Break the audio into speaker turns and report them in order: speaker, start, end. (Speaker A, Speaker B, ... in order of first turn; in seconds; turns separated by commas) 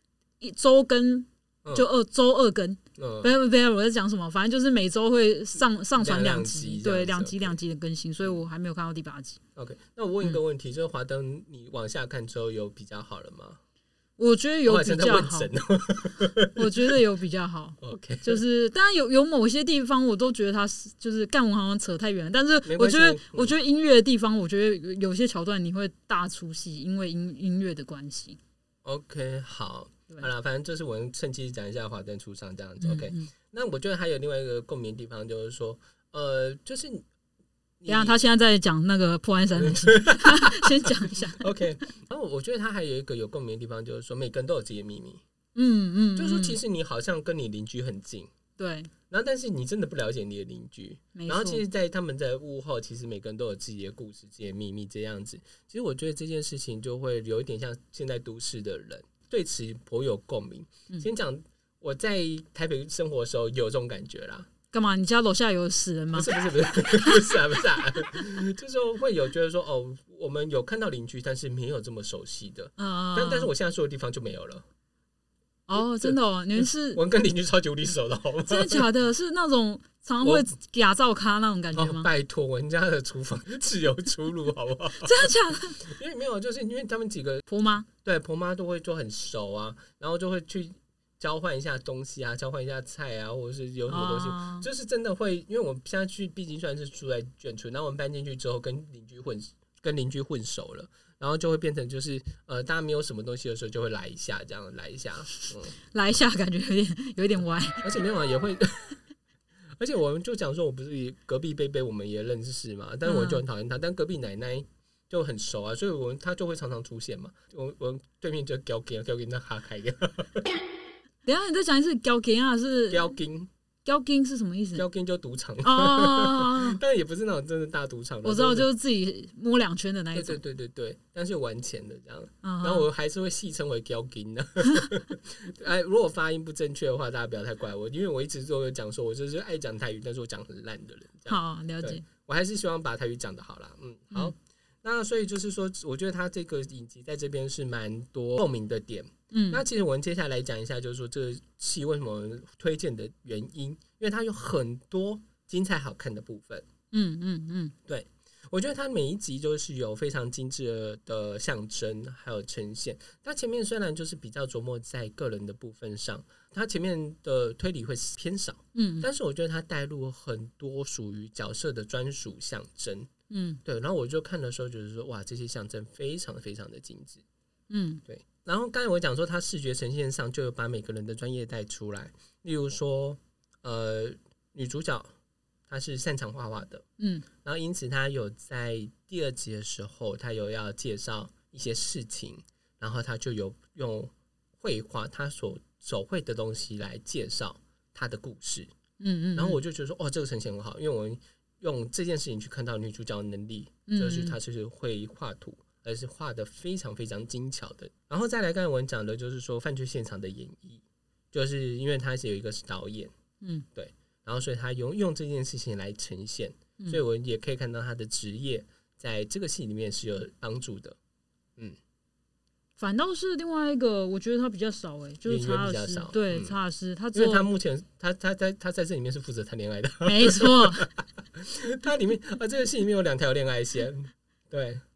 Speaker A: 0.4-9.4, Speaker B: 3.0-3.3, Speaker B: 6.0-7.6, Speaker B: 9.6-13.6, Speaker A: 14.2-15.5, Speaker B: 14.7-17.0, Speaker A: 16.5-28.4, Speaker B: 17.8-18.4, Speaker B: 22.6-23.5, Speaker B: 28.8-37.0, Speaker A: 32.8-33.3, Speaker B: 37.8-38.2, Speaker A: 37.9-41.5, Speaker B: 39.5-45.2, Speaker A: 45.5-46.6, Speaker B: 46.1-48.3, Speaker A: 48.6-48.9, Speaker B: 49.1-64.5, Speaker A: 51.1-51.6, Speaker A: 64.7-66.3, Speaker B: 66.1-74.6, Speaker A: 72.8-73.5, Speaker A: 75.7-77.0, Speaker B: 75.8-78.8, Speaker A: 78.5-82.1, Speaker B: 80.2-80.5, Speaker B: 81.7-87.5, Speaker A: 85.0-85.8, Speaker A: 87.5-87.9, Speaker B: 88.0-105.7, Speaker A: 93.9-94.7, Speaker A: 105.9-107.9, Speaker B: 107.8-109.0, Speaker B: 109.8-120.5, Speaker A: 113.0-113.4, Speaker A: 121.2-123.1, Speaker B: 122.9-123.5, Speaker A: 123.8-124.8, Speaker B: 124.8-128.7, Speaker A: 125.6-126.8, Speaker A: 128.2-130.4, Speaker B: 130.1-156.7, Speaker A: 132.4-132.9, Speaker A: 141.3-142.0, Speaker A: 149.3-149.6, Speaker A: 156.9-157.7, Speaker B: 157.9-173.1, Speaker A: 168.7-169.1, Speaker A: 173.3-173.6, Speaker B: 173.6-177.2, Speaker A: 177.7-178.0, Speaker B: 178.1-185.1, Speaker B: 185.7-186.8, Speaker A: 187.0-187.2, Speaker B: 187.4-198.7, Speaker A: 199.0-199.6, Speaker B: 199.3-213.1, Speaker A: 203.9-204.3, Speaker B: 213.7-221.0, Speaker A: 222.8-227.4, Speaker B: 225.2-226.6, Speaker B: 227.1-234.8, Speaker A: 230.1-230.9